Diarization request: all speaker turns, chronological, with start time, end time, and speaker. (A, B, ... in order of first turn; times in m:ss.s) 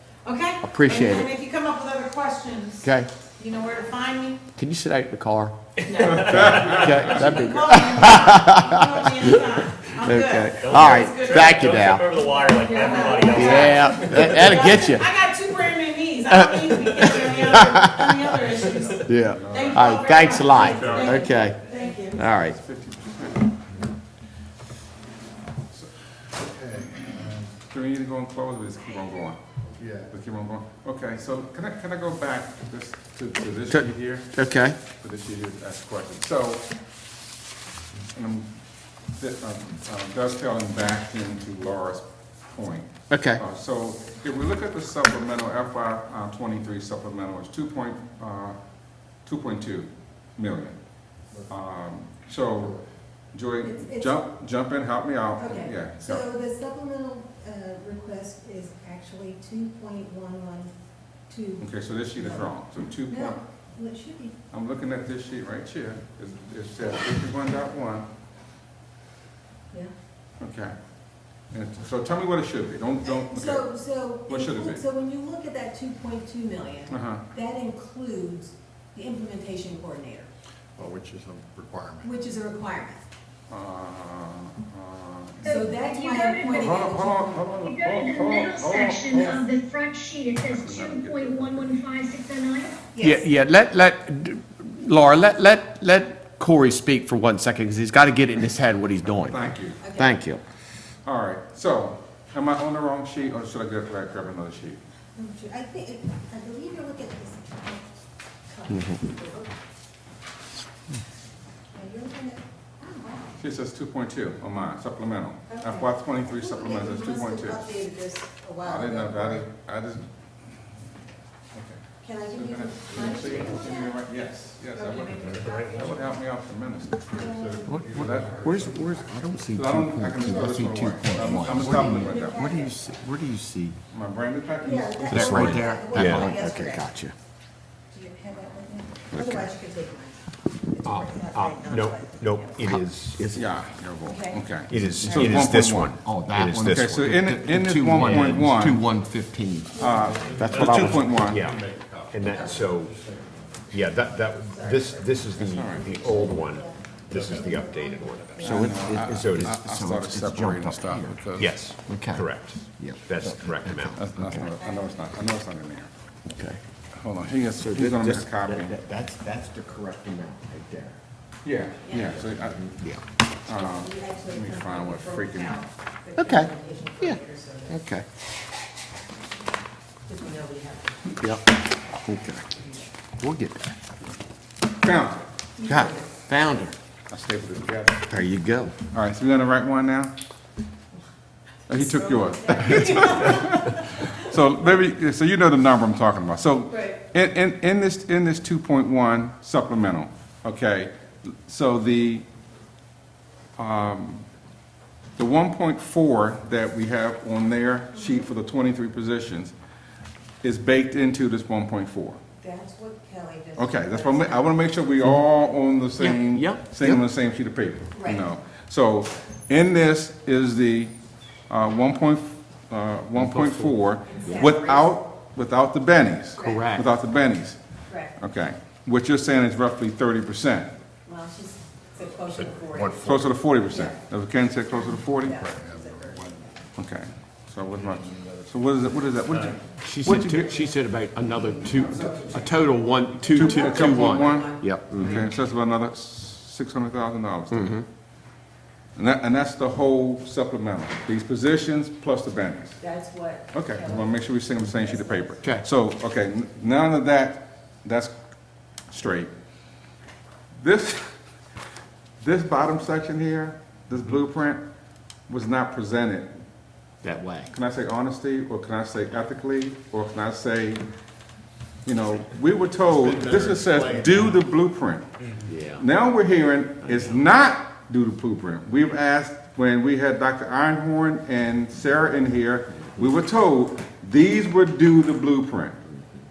0:00.2-0:02.8 A
0:00.6-0:01.4 B
0:02.8-0:03.1 B
0:03.4-0:04.4 A
0:04.5-0:12.2 B
0:06.1-0:06.9 C
0:06.1-0:07.5 D
0:07.5-0:10.5 A
0:10.0-0:15.0 D
0:13.1-0:14.0 E
0:13.2-0:15.2 B
0:14.7-0:18.8 A
0:16.2-0:22.6 B
0:19.1-0:21.5 C
0:19.5-0:22.1 A
0:20.5-0:22.0 E
0:22.2-0:23.5 C
0:26.4-0:27.5 F
0:27.6-0:29.4 C
0:29.7-0:30.1 F
0:30.1-0:36.7 C
0:33.7-0:34.8 B
0:38.1-0:38.6 C
0:39.2-0:50.8 C
0:43.1-0:43.4 B
0:51.5-0:52.8 C
0:53.3-0:56.3 C
0:53.6-0:54.3 E
0:55.4-1:00.7 E
1:01.3-1:02.5 E
1:01.6-1:03.4 C
1:03.1-1:04.3 E
1:04.5-1:08.1 C
1:10.4-1:10.8 C
1:11.5-1:14.8 C
1:13.0-1:20.3 E
1:16.9-1:17.2 C
1:20.8-1:22.1 F
1:22.0-1:23.0 E
1:23.5-1:25.6 C
1:25.4-1:26.7 G
1:25.4-1:27.6 E
1:26.5-1:29.5 C
1:27.6-1:32.8 G
1:30.4-1:31.8 C
1:32.9-1:33.3 E
1:33.0-1:39.4 B
1:39.2-1:39.8 C
1:39.8-1:40.2 E
1:40.0-1:40.4 B
1:41.0-1:44.8 C
1:45.2-1:48.0 E
1:48.5-1:49.5 E
1:48.7-1:49.0 B
1:51.7-1:53.4 E
1:53.4-1:57.8 C
1:55.5-1:59.5 E
1:58.6-2:00.1 C
2:01.5-2:07.2 C
2:02.0-2:04.0 E
2:03.0-2:03.7 F
2:05.1-2:06.0 F
2:07.1-2:07.8 E
2:07.2-2:08.9 F
2:07.7-2:13.8 B
2:08.0-2:08.6 C
2:09.5-2:12.5 C
2:10.2-2:12.8 E
2:13.9-2:15.7 C
2:14.6-2:16.9 E
2:15.1-2:17.1 B
2:15.1-2:16.4 H
2:17.9-2:22.6 E
2:19.1-2:19.5 B
2:20.9-2:23.3 H
2:22.6-2:23.5 B
2:23.3-2:26.0 C
2:24.1-2:25.1 E
2:24.7-2:27.0 H
2:25.0-2:31.1 B
2:26.7-2:28.9 C
2:29.7-2:30.6 E
2:29.8-2:31.5 C
2:30.0-2:33.5 F
2:31.0-2:33.0 H
2:32.3-2:32.7 E
2:33.7-2:39.6 H
2:34.5-2:38.8 E
2:35.4-2:36.0 C
2:37.1-2:37.5 F
2:38.4-2:41.2 B
2:38.4-2:41.6 C
2:41.4-2:44.0 H
2:41.8-2:44.5 B
2:43.9-2:45.9 C
2:44.6-2:45.1 E
2:47.0-2:48.8 C
2:47.6-2:51.0 B
2:51.4-2:52.9 C
2:51.8-2:52.2 E
2:51.9-2:53.0 B
2:53.5-2:55.6 C
2:53.5-2:57.8 E
2:56.2-2:58.0 B
3:00.1-3:01.2 E
3:02.1-3:02.6 B
3:03.2-3:03.8 B
3:04.8-3:05.2 C
3:05.6-3:06.1 E
3:05.7-3:06.8 B
3:07.1-3:08.1 C
3:08.1-3:08.8 B
3:08.9-3:10.1 C
3:11.7-3:22.2 C
3:11.7-3:14.1 E
3:16.7-3:17.0 E
3:23.6-3:24.2 C
3:25.2-3:29.5 C
3:30.4-3:32.2 C
3:32.4-3:34.6 E
3:33.6-3:40.9 C
3:36.0-3:37.0 B
3:38.0-3:38.3 E
3:41.5-3:50.7 C
3:43.2-3:44.3 B
3:44.1-3:45.0 E
3:46.4-3:46.8 E
3:46.4-3:46.9 B
3:51.1-3:53.1 E
3:52.3-3:53.3 F
3:53.0-3:55.4 C
3:53.7-3:54.0 E
3:54.6-3:56.6 E
3:55.3-3:56.5 F
3:56.8-4:00.7 C
3:57.9-3:58.5 F
3:59.8-4:05.2 B
4:01.2-4:05.2 E
4:02.0-4:02.3 C
4:03.3-4:07.9 C
4:07.5-4:07.8 B
4:09.0-4:12.8 C
4:12.8-4:15.5 E
4:13.5-4:18.2 C
4:18.8-4:19.3 C
4:20.6-4:21.1 C
4:22.2-4:24.6 C
4:25.3-4:26.4 C
4:27.0-4:27.5 B
4:27.5-4:30.8 C
4:31.8-4:45.8 C
4:33.0-4:34.1 F
4:35.5-4:35.8 B
4:36.9-4:37.2 B